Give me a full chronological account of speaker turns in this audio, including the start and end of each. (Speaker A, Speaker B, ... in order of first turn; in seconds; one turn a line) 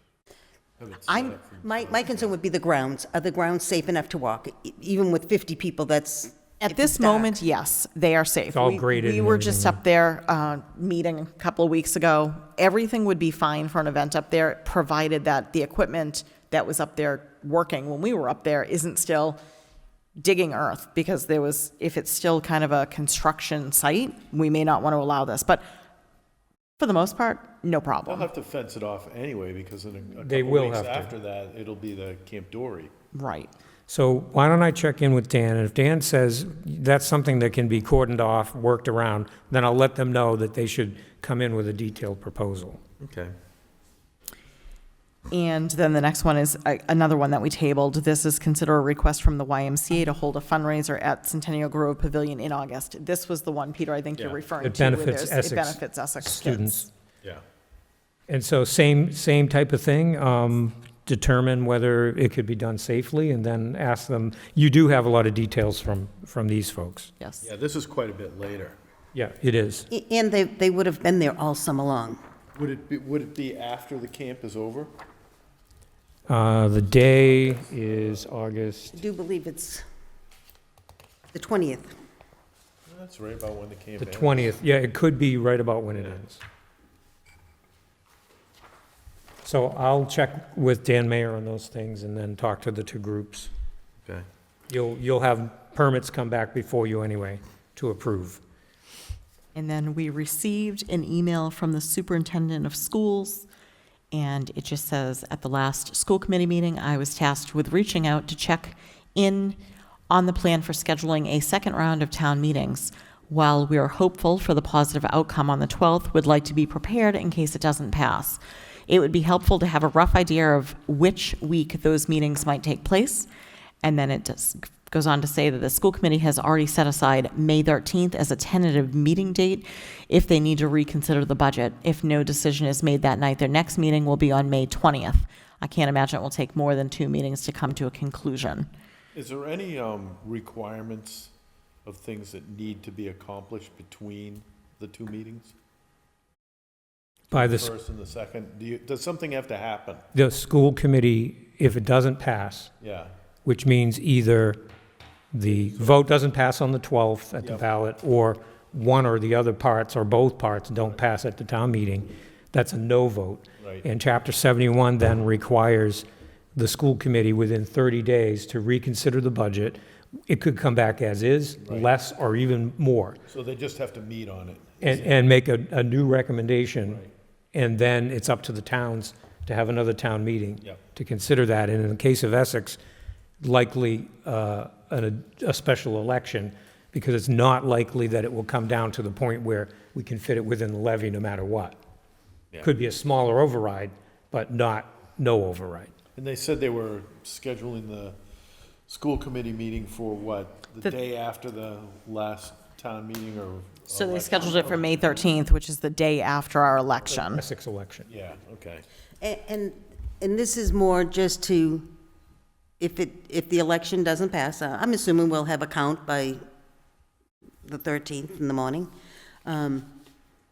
Speaker A: 0.8-2.3
Speaker B: 1.1-1.4
Speaker C: 1.6-7.4
Speaker B: 6.6-19.4
Speaker D: 8.5-9.8
Speaker B: 20.2-25.6
Speaker B: 26.8-28.3
Speaker A: 28.1-32.9
Speaker D: 30.2-31.1
Speaker B: 33.1-33.5
Speaker D: 33.9-42.8
Speaker A: 43.0-43.3
Speaker B: 45.3-56.9
Speaker A: 54.2-54.4
Speaker D: 54.6-56.9
Speaker D: 58.3-67.1
Speaker A: 67.4-68.8
Speaker D: 69.1-69.9
Speaker C: 69.9-72.2
Speaker A: 72.5-74.9
Speaker D: 76.3-79.0
Speaker C: 78.9-79.8
Speaker C: 81.3-81.9
Speaker A: 82.9-84.5
Speaker D: 84.0-86.4
Speaker D: 89.4-93.5
Speaker D: 94.7-98.4
Speaker B: 99.5-103.5
Speaker B: 104.1-109.6
Speaker B: 110.1-123.3
Speaker B: 123.8-138.7
Speaker A: 139.1-141.3
Speaker A: 141.8-145.5
Speaker D: 147.3-147.7
Speaker A: 147.3-150.0
Speaker D: 150.1-152.7
Speaker A: 152.8-153.1
Speaker D: 153.4-154.6
Speaker D: 155.3-173.2
Speaker A: 163.6-163.8
Speaker A: 171.6-171.9
Speaker A: 173.3-175.2
Speaker D: 174.8-177.0
Speaker D: 177.5-182.8
Speaker D: 183.4-191.8
Speaker D: 192.6-195.9
Speaker A: 196.2-198.2
Speaker A: 198.9-205.3
Speaker B: 203.9-207.4
Speaker D: 207.2-208.1
Speaker A: 208.1-208.8
Speaker C: 209.2-211.9
Speaker C: 212.8-216.4
Speaker C: 217.6-218.9
Speaker C: 219.4-219.9